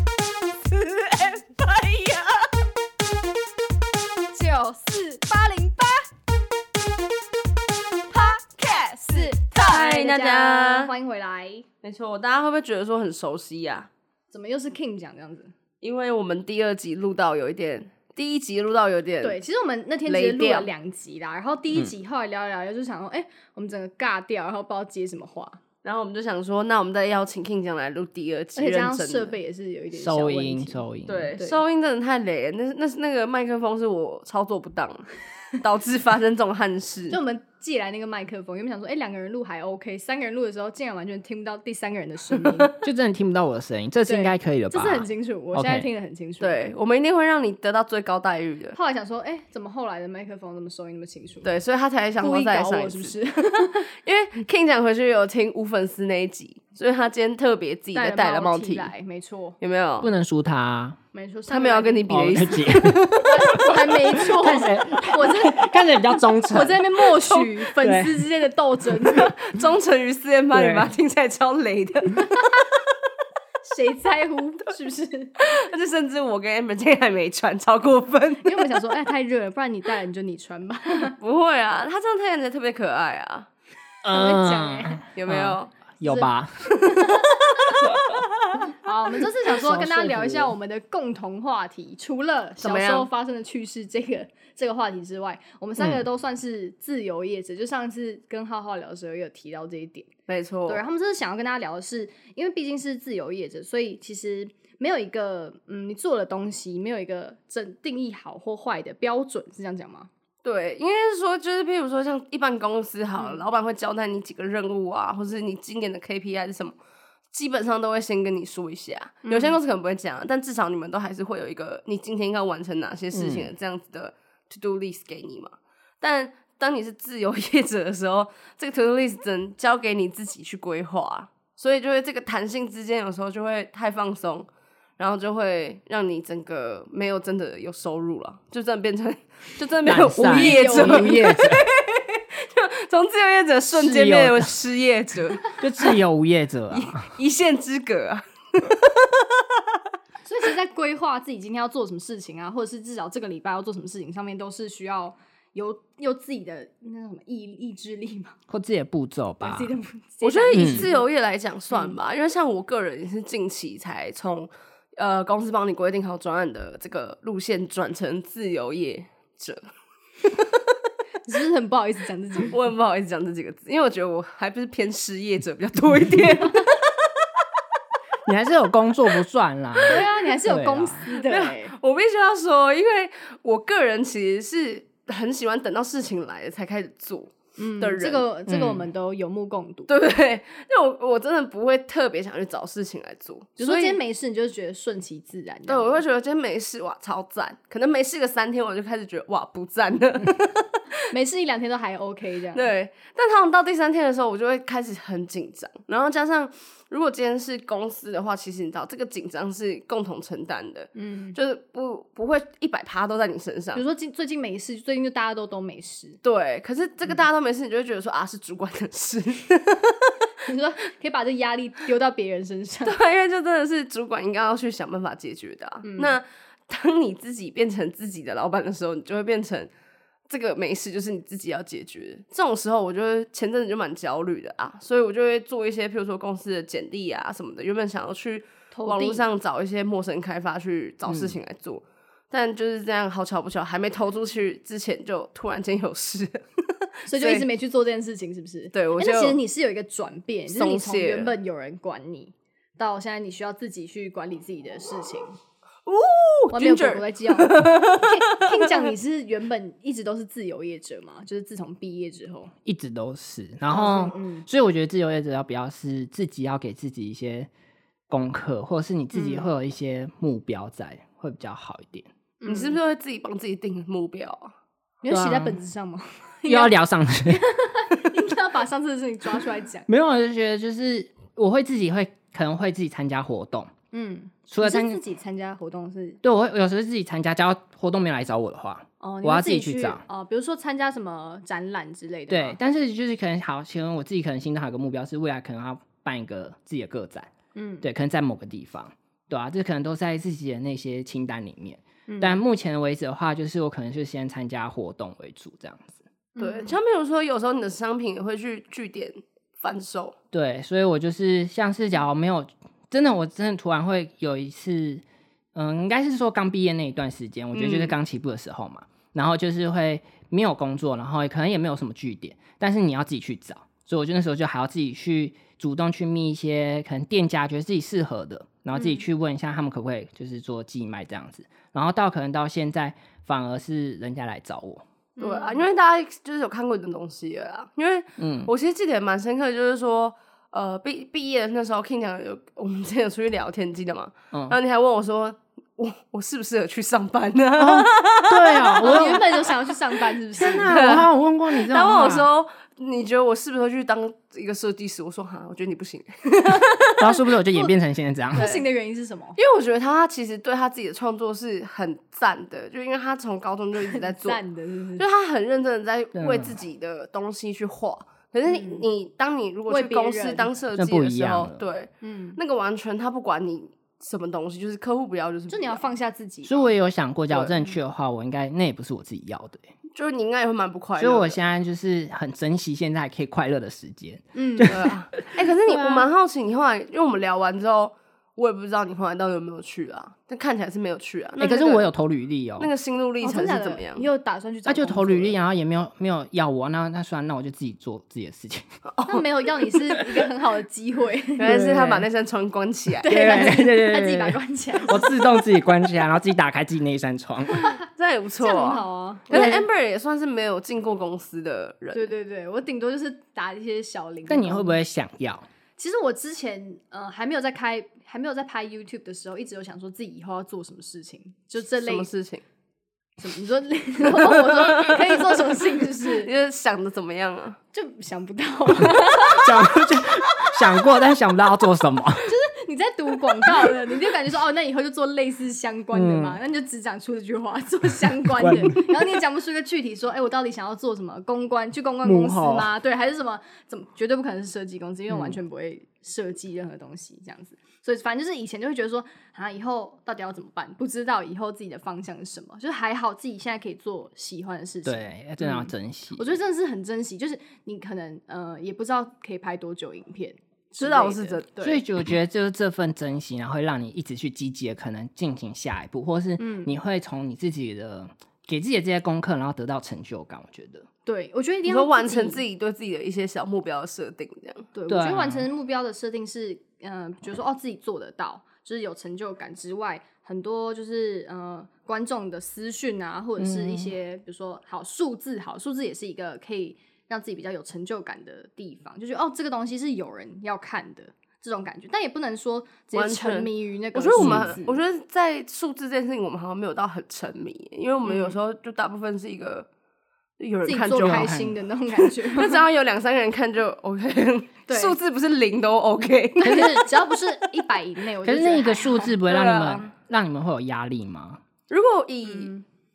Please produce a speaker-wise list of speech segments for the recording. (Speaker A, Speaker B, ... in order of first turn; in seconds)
Speaker A: 0.7-2.4, 8.8-10.9, 11.8-13.9, 15.8-19.4, 20.1-20.7, 25.8-29.4, 31.1-37.2, 46.4-48.8, 51.4-58.9, 59.6-60.1, 61.5-63.6, 69.1-72.9, 75.4-78.8, 81.2-83.5, 85.1-85.7, 86.8-87.9, 92.6-93.1, 100.3-100.8, 110.4-116.7, 117.3-145.6, 146.7-149.6, 160.2-169.6, 172.5-177.1, 181.1-188.3, 189.9-194.0, 195.7-200.9, 202.5-213.8, 216.2-220.2, 222.8-229.7, 230.3-247.5, 248.7-249.4, 250.5-251.3, 255.8-258.9, 272.5-274.5, 306.4-310.1, 317.5-317.9, 335.2-349.6, 350.7-357.1, 358.4-358.6, 359.4-364.4, 365.0-375.9, 379.9-381.4, 384.7-391.9, 392.6-394.1, 398.9-399.4, 401.4-403.4, 407.9-412.1, 421.8-422.4, 424.2-427.6, 460.8-461.6, 471.6-474.7, 492.9-499.7, 500.4-501.3, 502.0-506.9, 509.3-509.9, 511.7-512.5
Speaker B: 1.1-1.4, 4.3-6.1, 8.1-11.7, 14.3-15.5, 19.2-25.6, 28.6-30.8, 37.1-42.8, 44.0-46.7, 48.7-51.5, 52.2-53.9, 57.9-59.5, 61.1-62.2, 63.2-65.7, 66.5-69.3, 73.6-75.3, 78.4-81.1, 84.1-85.0, 86.0-86.3, 86.8-87.9, 88.7-100.1, 100.7-110.1, 113.2-113.4, 119.2-119.6, 140.2-141.3, 150.2-158.3, 159.4-161.1, 171.2-172.5, 179.8-181.7, 187.6-189.9, 193.6-196.0, 201.1-202.7, 210.9-211.4, 213.7-216.2, 220.4-223.0, 225.8-226.2, 238.7-239.2, 247.1-255.3, 256.5-262.5, 263.7-264.5, 269.1-269.5, 272.4-272.8, 275.0-276.7, 277.3-279.9, 283.9-286.2, 289.0-292.6, 297.5-297.8, 302.1-302.4, 306.4-306.7, 328.7-329.0, 335.2-335.6, 348.8-350.9, 356.9-357.7, 358.3-359.4, 363.7-365.0, 368.5-368.8, 369.7-370.6, 372.0-372.4, 375.5-376.7, 384.3-384.8, 393.2-395.4, 399.1-401.6, 403.0-405.4, 407.5-407.8, 408.4-409.4, 411.9-414.8, 415.8-422.1, 423.2-426.3, 427.7-429.8, 432.2-461.8, 466.4-466.7, 471.1-472.4, 474.7-494.8, 498.0-498.4, 500.6-502.6, 504.7-504.9, 506.4-509.2, 512.2-512.6
Speaker C: 29.9-31.3, 42.8-45.9, 60.0-61.0, 62.1-66.8, 67.8-68.2, 70.5-70.9, 84.0-86.7, 89.5-90.5, 95.8-96.0, 123.1-123.5, 139.8-141.6, 143.7-144.6, 145.5-147.1, 158.5-159.7, 160.5-160.9, 178.2-181.0, 188.5-188.9, 241.1-241.3, 262.6-267.5, 268.1-272.1, 275.1-275.6, 276.4-277.9, 279.9-283.7, 284.5-285.0, 286.2-290.0, 292.3-297.3, 297.8-306.0, 310.3-315.0, 315.5-334.8, 338.2-338.5, 344.3-344.6, 347.6-349.4, 350.4-352.3, 357.0-358.5, 366.1-366.6, 370.7-371.6, 376.4-379.7, 381.0-386.1, 391.4-392.7, 394.6-398.7, 401.4-402.1, 403.0-407.7, 409.3-409.6, 414.3-415.4, 429.4-432.3, 435.9-436.4, 438.4-439.2, 442.0-442.7, 445.1-445.4, 454.8-456.4, 461.6-470.9, 474.9-475.5, 483.4-483.9, 494.1-494.6, 501.0-501.6, 506.4-506.8, 508.2-511.4